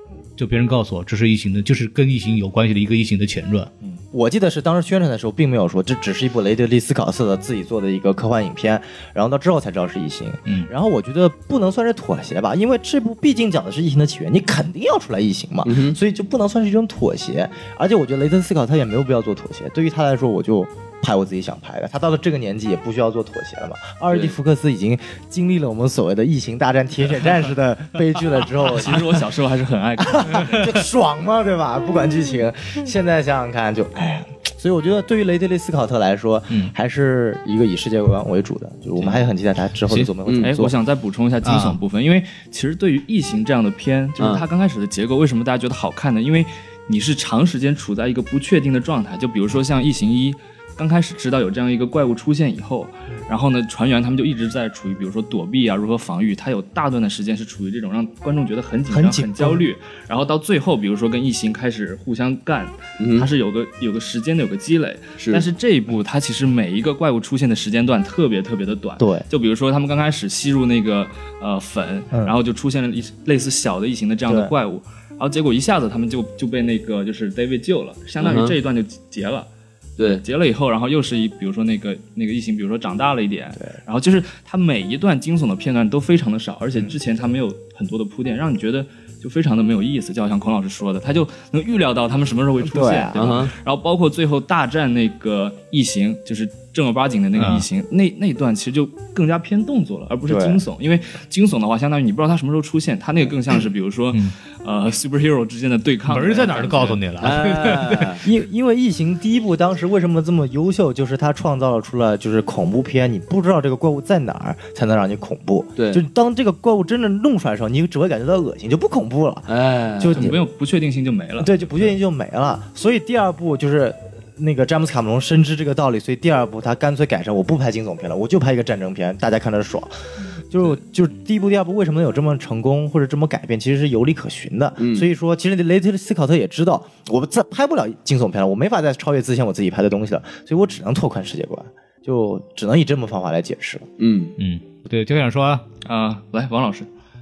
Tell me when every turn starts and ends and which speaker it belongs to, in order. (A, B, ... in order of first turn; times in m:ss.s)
0:00.4-0:03.7 A
0:04.1-0:29.2 B
0:15.6-0:16.0 C
0:28.6-0:30.7 D
0:30.0-0:40.8 B
0:39.0-0:39.3 D
0:40.2-0:40.5 C
0:40.4-1:19.5 D
0:41.4-0:41.8 A
0:44.2-0:44.5 C
0:58.9-0:59.6 B
1:03.0-1:03.3 C
1:05.2-1:05.4 C
1:09.0-1:09.2 B
1:14.3-1:14.5 B
1:18.2-1:18.6 C
1:20.0-1:47.0 D
1:32.6-1:33.4 B
1:33.1-1:33.5 C
1:37.4-1:37.6 A
1:40.3-1:40.6 B
1:46.1-1:48.1 A
1:47.2-1:48.2 C
1:48.2-2:00.4 B
1:55.8-1:56.0 C
1:59.5-2:00.3 C
2:00.1-2:01.9 D
2:01.4-2:09.9 B
2:10.5-2:23.9 B
2:14.8-2:15.1 C
2:24.0-2:24.4 C
2:24.4-2:25.6 A
2:25.8-2:26.9 D